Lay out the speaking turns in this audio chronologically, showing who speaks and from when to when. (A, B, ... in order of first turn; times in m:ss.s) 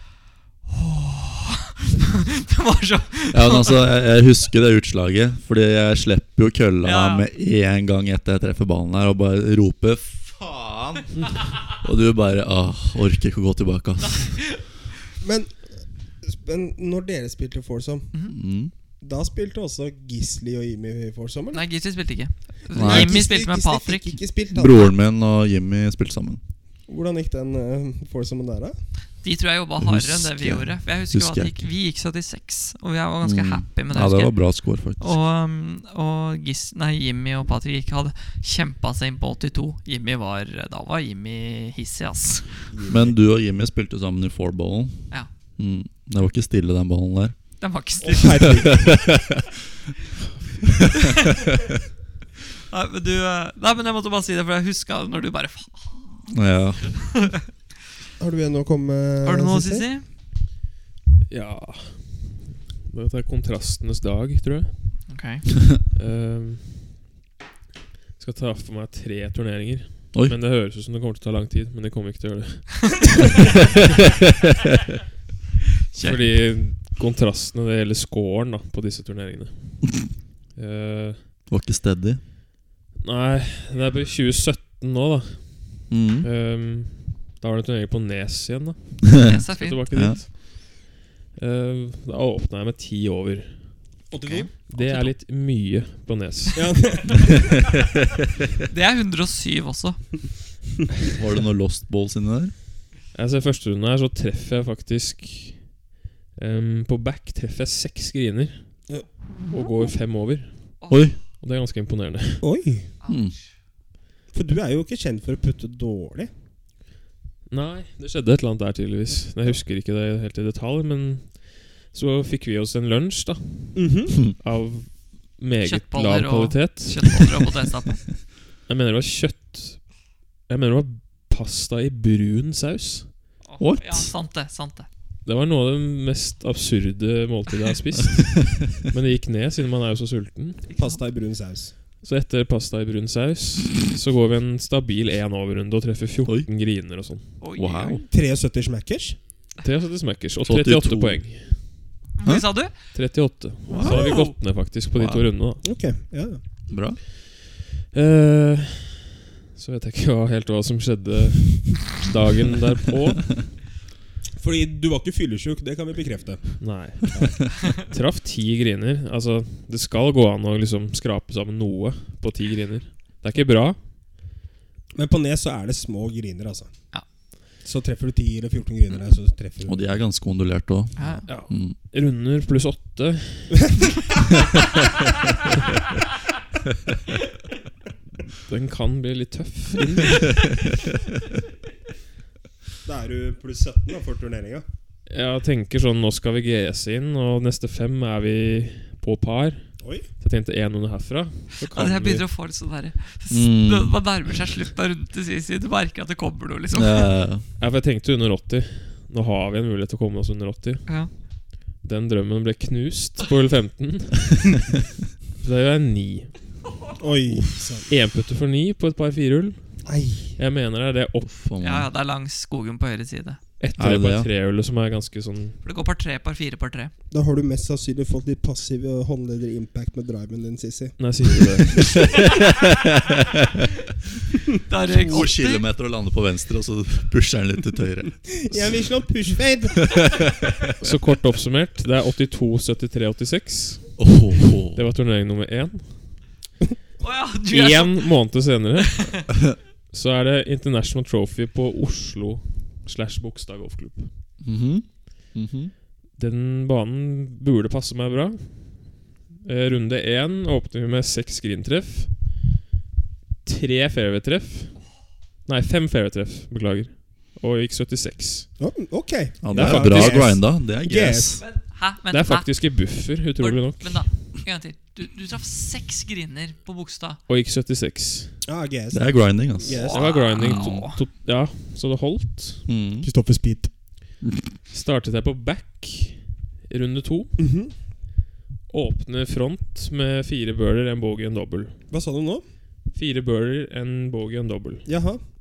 0:00.6-0:03.9 A
0:03.3-0:11.1 B
0:06.8-0:07.2 A
0:11.7-0:14.4 B
0:14.1-0:14.6 A
0:15.2-0:15.6 C
0:16.2-0:18.1 C
0:18.3-0:18.7 B
0:19.0-0:21.6 C
0:21.5-0:24.2 A
0:22.7-0:24.9 C
0:22.7-0:23.2 B
0:24.5-0:26.4 B
0:26.9-0:28.8 C
0:29.2-0:34.3 A
0:29.8-0:31.6 B
0:33.2-0:35.2 B
0:35.0-0:42.6 A
0:42.7-0:43.2 C
0:42.9-0:47.4 B
0:47.6-0:48.6 A
0:48.0-0:49.2 C
0:48.4-0:49.4 B
0:52.7-0:56.2 A
0:56.3-0:57.1 B
0:57.0-0:57.3 A
0:58.2-0:59.8 C
0:59.2-1:00.0 A
1:01.3-1:05.1 D
1:05.1-1:05.5 A
1:05.9-1:07.0 D
1:08.2-1:13.4 D
1:15.9-1:16.2 A
1:16.0-1:21.3 D
1:21.5-1:22.2 B
1:23.0-1:34.0 D
1:25.9-1:26.3 B
1:29.1-1:29.4 B
1:29.2-1:29.8 A
1:29.9-1:30.2 B
1:34.1-1:34.5 C
1:34.2-1:35.1 A
1:34.7-1:36.8 D
1:36.5-1:37.4 C
1:38.7-1:40.2 A
1:41.1-1:42.5 B
1:43.1-1:45.7 D
1:46.4-1:48.8 D
1:49.4-1:52.5 D
1:50.8-1:51.1 A
1:50.9-1:51.2 B
1:52.4-1:52.9 C
1:53.0-1:53.5 A
1:53.1-1:53.4 B
1:54.3-1:56.3 C
1:57.5-2:07.5 D
2:03.7-2:04.2 C
2:05.6-2:08.0 A
2:08.6-2:09.9 D
2:10.5-2:13.1 D
2:13.4-2:14.9 A
2:13.6-2:14.1 B
2:15.2-2:20.7 D
2:20.7-2:21.0 A
2:20.8-2:21.7 C
2:22.0-2:27.3 D
2:27.4-2:28.0 A
2:27.6-2:28.0 B
2:28.1-2:29.2 C
2:29.6-2:31.7 D
2:30.4-2:31.2 B
2:32.2-2:32.7 A
2:32.9-2:35.6 D
2:33.7-2:34.3 A
2:33.7-2:34.1 B
2:34.9-2:35.2 B
2:35.6-2:36.4 C
2:36.7-2:37.0 B
2:37.8-2:43.6 D
2:44.4-2:47.3 C
2:46.6-2:53.8 D
2:55.0-2:56.7 C
2:57.6-2:59.9 C
2:59.7-3:01.8 B
3:01.0-3:01.3 A
3:01.3-3:03.8 D
3:08.4-3:10.5 D
3:12.8-3:14.6 C
3:15.1-3:22.2 D
3:19.8-3:20.0 C
3:21.6-3:27.1 A
3:23.3-3:24.0 B
3:26.7-3:27.4 B
3:27.6-3:30.8 D
3:30.8-3:31.1 A
3:31.8-3:34.8 D
3:35.4-3:36.4 D
3:37.0-3:37.8 C
3:37.3-3:37.6 B
3:37.9-3:39.6 D
3:39.8-3:40.4 C
3:40.4-3:41.3 D
3:41.3-3:41.9 B
3:41.6-3:43.4 A
3:43.6-3:45.6 D
3:43.8-3:44.3 B
3:45.6-3:46.9 A
3:47.1-3:51.6 C
3:51.0-3:52.1 D
3:52.2-3:53.6 B
3:54.6-3:55.6 A
3:54.8-3:58.8 B
3:58.3-3:59.9 C
3:59.8-4:00.6 B
4:00.8-4:04.0 D
4:04.0-4:04.8 B
4:04.7-4:06.2 D
4:07.0-4:08.2 A
4:07.5-4:09.2 D
4:08.9-4:09.2 A
4:09.9-4:14.1 D
4:14.4-4:15.7 B
4:16.2-4:22.4 D
4:23.4-4:24.8 D
4:25.4-4:28.5 D
4:28.6-4:31.4 C
4:29.4-4:31.4 B
4:29.5-4:30.2 D
4:31.4-4:37.2 A
4:32.1-4:34.0 D
4:37.3-4:38.4 D
4:38.4-4:40.1 C
4:38.9-4:39.8 B
4:39.7-4:41.0 A
4:39.9-4:42.6 D
4:40.4-4:40.8 B
4:42.7-4:43.1 B
4:43.0-4:43.7 C
4:44.7-4:47.4 D
4:47.4-4:47.7 C
4:48.7-4:51.8 D
4:51.9-4:52.4 C
4:52.9-4:54.8 D
4:54.8-4:55.2 C